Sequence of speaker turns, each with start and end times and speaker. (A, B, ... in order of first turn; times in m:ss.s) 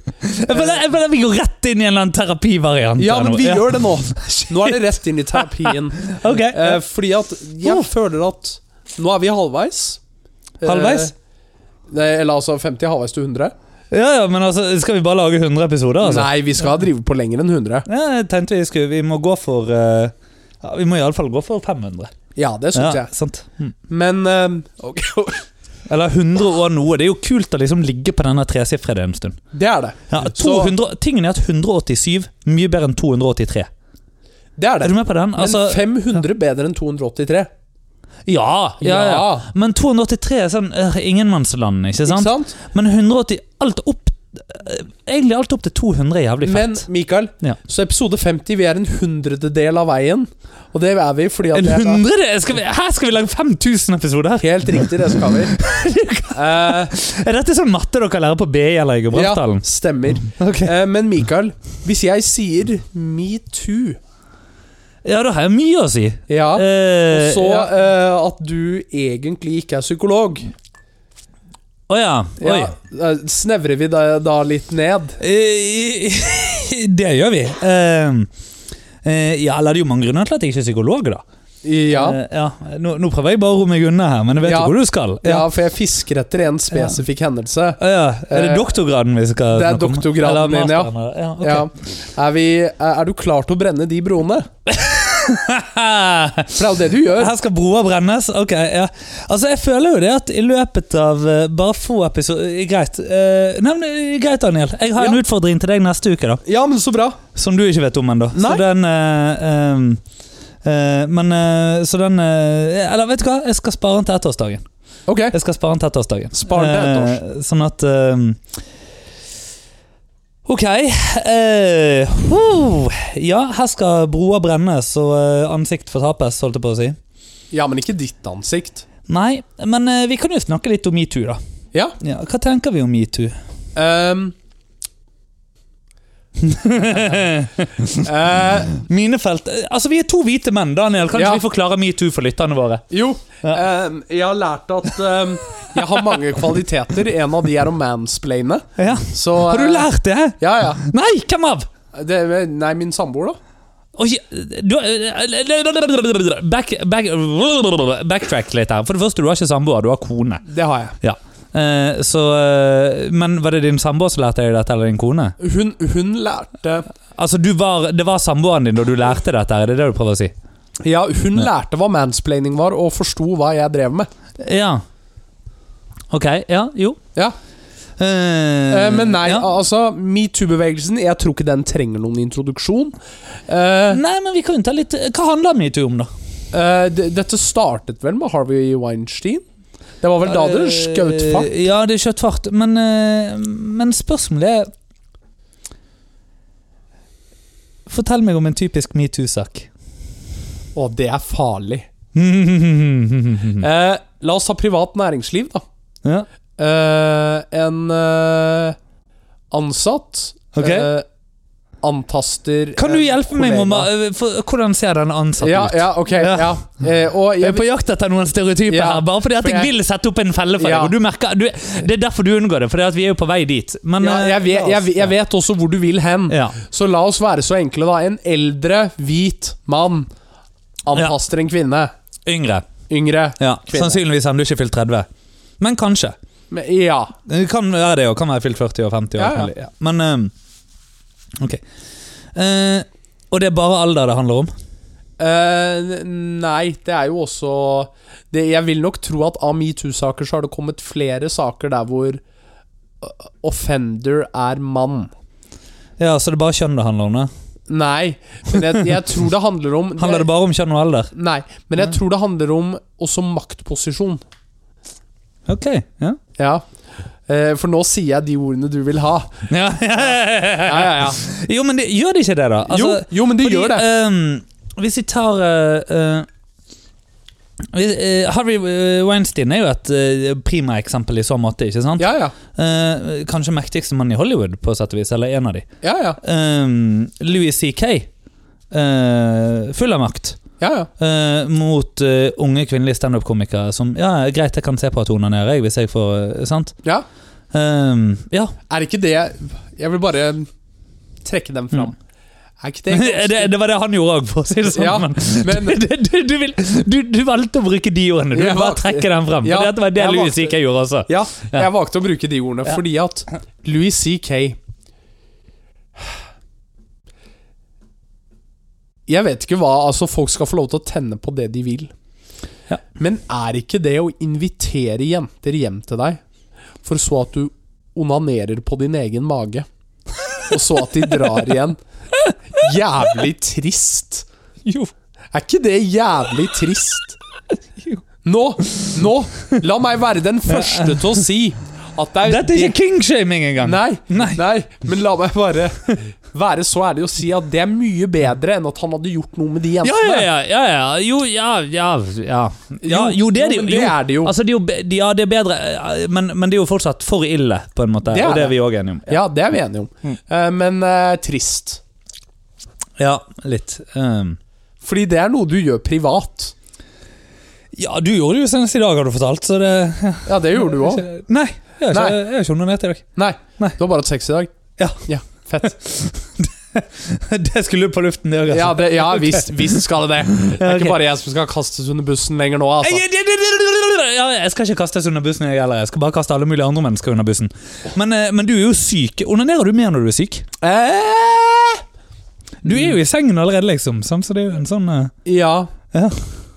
0:00.2-0:04.8 A
0:00.5-0:00.8 B
0:03.0-0:10.0 B
0:05.4-0:06.8 A
0:07.6-0:07.9 A
0:10.6-0:11.1 B
0:10.6-0:11.1 A
0:11.9-0:13.5 B
0:13.9-0:16.3 A
0:16.0-0:17.9 B
0:17.9-0:22.1 A
0:22.4-0:23.1 B
0:22.7-0:23.7 A
0:23.9-0:25.5 B
0:25.9-0:29.4 A
0:29.5-0:30.8 B
0:30.1-0:33.7 A
0:34.6-0:37.5 B
0:34.8-0:36.2 A
0:38.3-0:46.8 A
0:38.8-0:39.5 B
0:42.1-0:42.6 B
0:46.4-0:52.0 B
0:51.5-0:59.6 A
0:54.4-0:55.6 B
0:56.3-0:56.9 B
0:59.1-1:04.0 B
1:00.2-1:00.7 A
1:05.0-1:07.7 A
1:06.3-1:10.5 B
1:11.9-1:12.7 A
1:12.4-1:15.2 B
1:15.2-1:18.3 A
1:19.0-1:21.2 A
1:21.6-1:22.2 B
1:21.9-1:25.5 A
1:24.4-1:28.7 B
1:26.7-1:27.0 A
1:27.8-1:31.7 A
1:29.5-1:34.5 B
1:34.7-1:46.4 A
1:36.5-1:37.3 B
1:46.4-1:47.2 B
1:47.3-1:50.0 A
1:48.3-1:48.6 B
1:50.6-1:54.6 A
1:55.1-1:55.4 B
1:55.3-1:58.6 A
1:56.3-1:57.2 B
2:00.5-2:07.0 A
2:07.5-2:08.8 B
2:09.1-2:11.4 A
2:12.0-2:13.3 A
2:13.8-2:14.4 B
2:16.4-2:22.8 A
2:18.0-2:18.7 B
2:21.1-2:21.4 B
2:22.9-2:30.8 B
2:25.6-2:26.2 A
2:28.8-2:31.7 A
2:31.9-2:33.4 B
2:34.0-2:40.5 A
2:40.5-2:41.0 B
2:41.0-2:45.4 A
2:45.4-2:46.9 B
2:47.2-2:50.3 A
2:50.8-2:54.1 B
2:54.4-2:54.8 A
2:56.1-2:57.0 A
2:58.0-2:59.5 A
2:58.7-3:03.0 B
3:03.5-3:04.0 B
3:03.9-3:06.1 A
3:06.5-3:09.4 B
3:10.0-3:11.6 B
3:10.2-3:14.7 A
3:17.9-3:19.7 A
3:20.8-3:21.9 B
3:22.1-3:23.6 A
3:23.6-3:25.6 B
3:26.6-3:28.8 B
3:29.5-3:31.0 B
3:30.5-3:30.9 A
3:31.8-3:33.9 B
3:32.8-3:36.6 A
3:35.4-3:37.6 B
3:37.4-3:45.1 A
3:38.7-3:39.7 B
3:40.6-3:40.9 B
3:44.0-3:50.1 B
3:46.3-3:46.6 A
3:50.8-3:51.9 B
3:52.3-3:52.7 A
3:52.9-3:54.0 B
3:53.4-3:55.1 A
3:55.6-3:56.2 A
3:56.5-3:57.1 B
3:57.3-4:00.3 A
3:59.2-3:59.5 B
4:02.4-4:04.5 A
4:05.2-4:12.2 B
4:13.0-4:15.1 B
4:16.0-4:17.3 A
4:17.7-4:20.3 B
4:20.0-4:21.1 A
4:21.1-4:24.2 B
4:25.5-4:26.2 A
4:26.4-4:26.7 B
4:27.3-4:29.5 B
4:29.5-4:36.3 A
4:30.6-4:31.2 B
4:32.7-4:33.8 B
4:37.7-4:45.7 A
4:42.0-4:42.4 B
4:45.8-4:46.2 B
4:46.2-4:48.1 A
4:48.7-4:50.4 A
4:50.6-4:50.9 B
4:51.0-4:56.8 A
4:57.5-4:58.6 A
4:58.7-5:00.5 B
5:01.2-5:02.0 B
5:02.6-5:03.5 B
5:02.9-5:11.7 A
5:04.7-5:05.8 B
5:08.3-5:10.5 B
5:11.1-5:14.6 B
5:19.1-5:21.9 B
5:23.0-5:26.2 B
5:26.8-5:29.7 B
5:30.5-5:31.8 B
5:31.1-5:31.4 A
5:32.5-5:34.3 B
5:34.6-5:34.9 A
5:35.3-5:37.2 B
5:38.2-5:42.8 B
5:38.6-5:38.9 A
5:40.5-5:41.2 A
5:42.3-5:44.4 A
5:43.6-5:50.3 B
5:49.8-5:59.2 A
5:52.8-5:54.3 B
5:58.1-6:01.8 B
6:03.0-6:04.4 A
6:04.8-6:06.5 B
6:07.7-6:13.1 A
6:10.3-6:11.1 B
6:11.9-6:12.2 B
6:13.2-6:14.5 B
6:15.0-6:15.8 B
6:15.6-6:19.8 A
6:18.5-6:23.0 B
6:20.4-6:21.0 A
6:22.8-6:30.5 A
6:30.6-6:31.8 B
6:32.6-6:35.1 A
6:35.2-6:35.7 B
6:35.9-6:36.2 A